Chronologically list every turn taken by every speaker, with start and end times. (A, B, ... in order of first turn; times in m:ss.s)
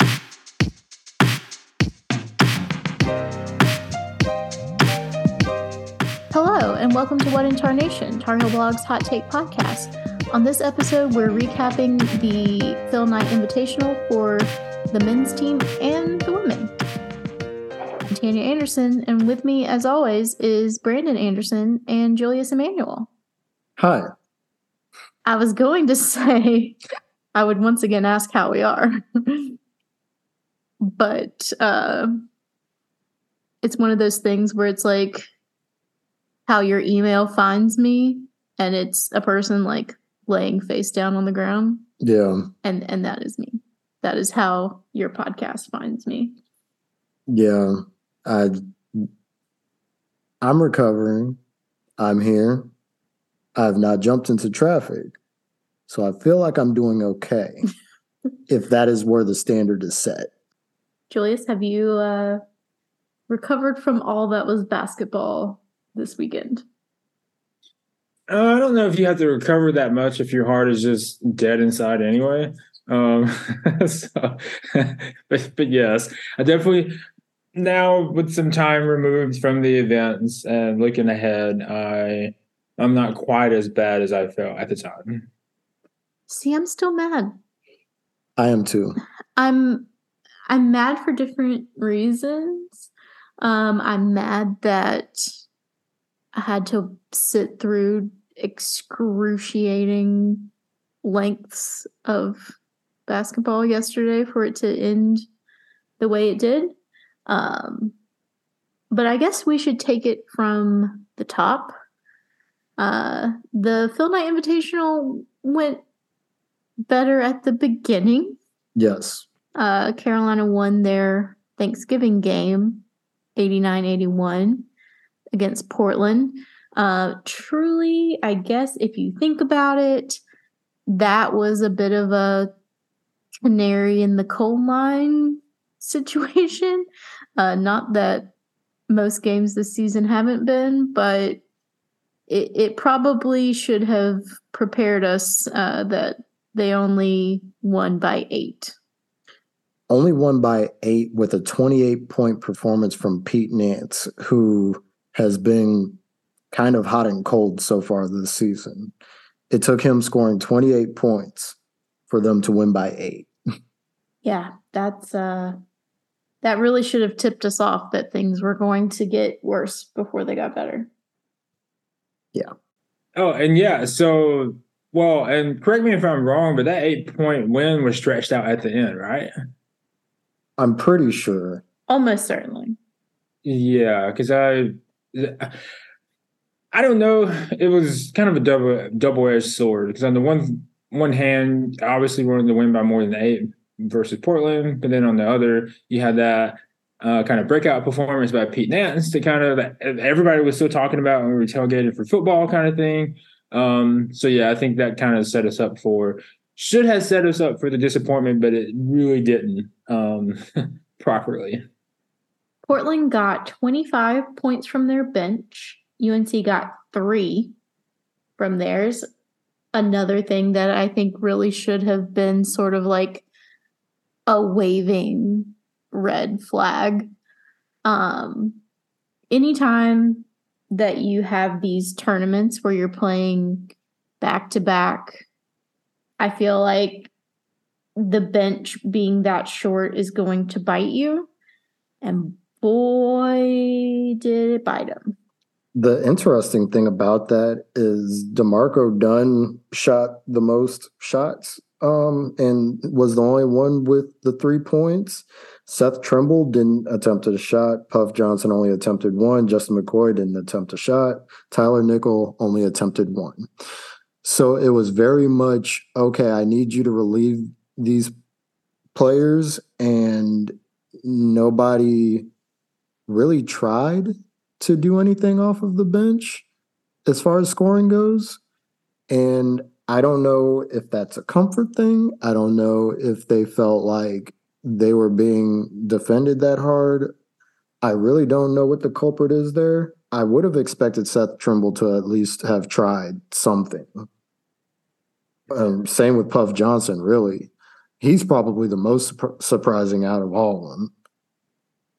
0:06.3-0:16.7 A
0:18.1-0:23.1 A
0:23.8-0:24.1 B
0:25.2-0:26.8 A
0:27.3-0:29.6 A
0:30.9-0:32.3 A
0:33.6-0:35.3 A
0:36.5-0:41.8 A
0:42.0-0:42.5 B
0:42.6-0:46.4 A
0:47.3-0:49.1 B
0:50.4-0:51.4 B
0:52.0-0:52.7 B
0:53.6-0:55.2 B
0:55.9-0:57.6 B
0:58.5-1:00.3 B
1:01.1-1:02.4 A
1:03.3-1:06.6 A
1:08.3-1:16.9 C
1:17.5-1:25.3 C
1:26.3-1:27.4 A
1:28.4-1:29.0 B
1:29.4-1:29.9 A
1:30.5-1:32.9 A
1:33.4-1:35.3 A
1:36.3-1:40.5 A
1:41.0-1:45.2 A
1:46.0-1:46.7 A
1:47.3-1:47.9 A
1:48.9-1:51.7 A
1:52.8-1:55.8 A
1:56.9-1:58.4 A
1:58.8-1:59.2 B
1:59.6-2:02.8 A
2:03.4-2:04.7 A
2:05.3-2:10.2 A
2:10.9-2:12.5 A
2:13.4-2:16.8 A
2:17.4-2:18.3 A
2:18.9-2:21.4 A
2:22.3-2:28.7 A
2:29.9-2:36.0 B
2:36.5-2:38.9 B
2:39.5-2:41.6 B
2:42.1-2:43.3 B
2:44.2-2:45.6 A
2:46.4-2:50.9 A
2:53.2-2:59.3 C
3:00.6-3:01.6 B
3:01.9-3:02.8 A
3:03.4-3:05.6 C
3:06.7-3:31.6 C
3:32.7-3:37.5 A
3:38.4-3:39.1 A
3:39.7-3:43.2 A
3:44.3-3:47.1 A
3:47.8-3:48.6 A
3:49.3-3:55.2 A
3:56.2-3:57.1 A
3:58.0-4:01.3 A
4:02.0-4:05.1 A
4:05.8-4:23.5 B
4:24.2-4:28.1 B
4:28.9-4:32.3 B
4:33.1-4:36.4 B
4:37.1-4:38.4 B
4:39.1-4:47.1 B
4:47.8-4:54.1 B
4:55.5-5:00.9 B